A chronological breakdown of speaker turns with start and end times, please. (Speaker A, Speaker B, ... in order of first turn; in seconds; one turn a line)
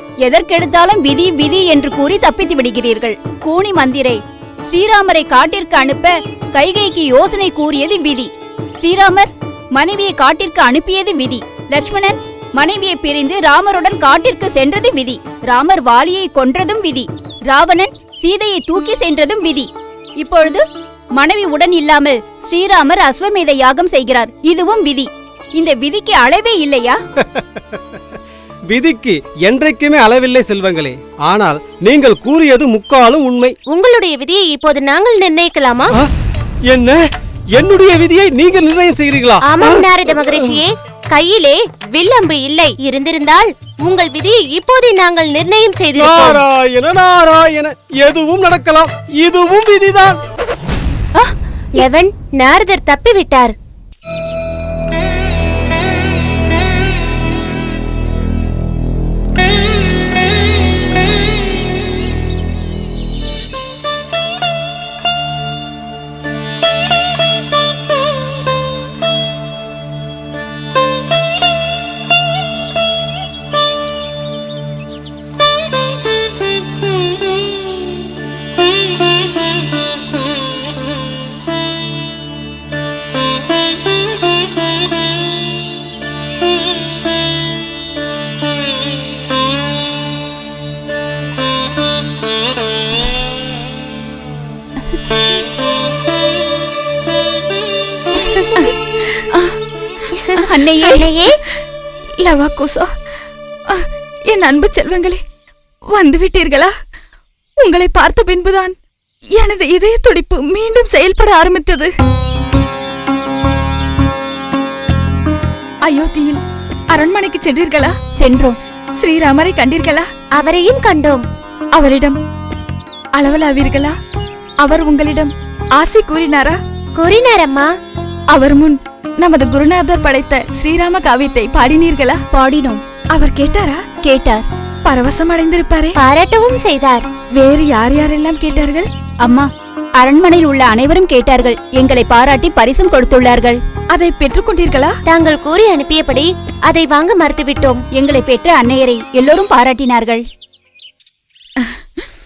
Speaker A: 0.2-20.6
Speaker A: 21.2-27.0
Speaker B: 27.2-27.8
Speaker B: 28.7-33.5
Speaker C: 33.7-35.9
Speaker B: 36.7-37.0
Speaker B: 37.5-39.8
Speaker C: 39.5-46.4
Speaker B: 46.0-50.2
Speaker C: 51.8-53.5
Speaker A: 100.3-101.0
Speaker D: 100.8-101.1
Speaker C: 100.9-101.3
Speaker D: 102.2-102.9
Speaker D: 103.7-105.2
Speaker D: 105.9-106.7
Speaker D: 107.6-108.8
Speaker D: 109.4-111.9
Speaker D: 115.8-117.9
Speaker A: 118.2-118.6
Speaker D: 119.0-120.1
Speaker C: 120.4-121.2
Speaker D: 121.8-122.2
Speaker D: 123.2-124.0
Speaker D: 124.6-126.6
Speaker C: 127.0-127.7
Speaker D: 128.3-132.2
Speaker A: 132.3-132.8
Speaker D: 133.1-133.8
Speaker A: 134.0-134.5
Speaker D: 134.9-136.0
Speaker C: 136.0-137.1
Speaker D: 137.4-138.9
Speaker A: 139.2-139.5
Speaker A: 140.0-143.6
Speaker D: 143.9-144.9
Speaker C: 145.1-147.8
Speaker A: 147.9-150.2